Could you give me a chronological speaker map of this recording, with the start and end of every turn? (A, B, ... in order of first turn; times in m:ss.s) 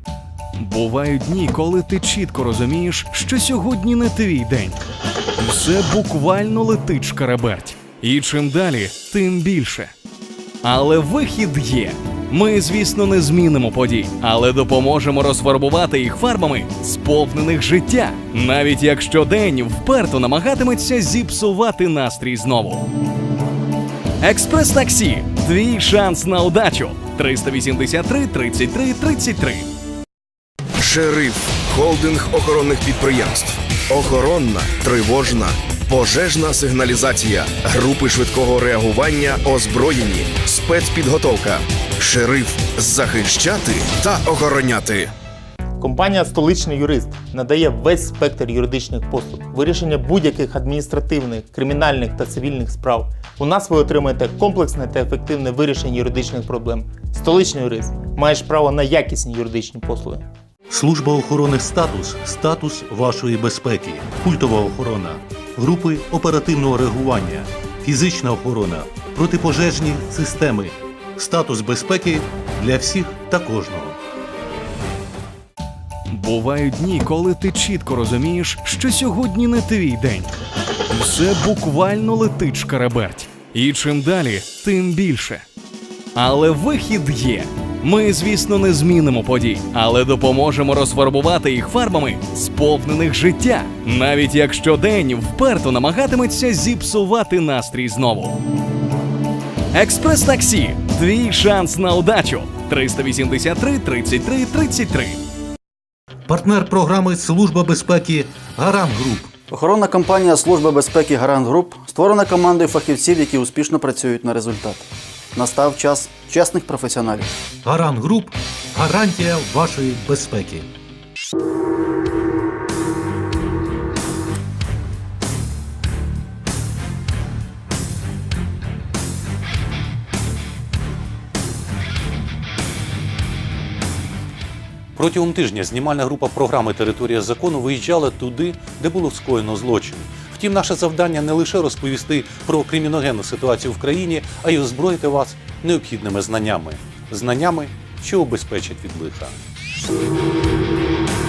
0:00.6-0:04.8 A
0:05.4-0:09.9 A
0:10.6-0:22.9 A
0:24.2-0:29.7 A
0:30.8-0:45.1 B
0:45.8-1:00.3 C
1:00.7-1:14.0 D
1:16.1-1:20.3 A
1:20.9-1:25.4 A
1:26.2-1:38.4 A
1:39.7-1:45.2 A
1:46.3-1:49.3 D
1:49.5-1:57.3 E
1:57.6-2:00.7 D
2:15.0-2:29.4 D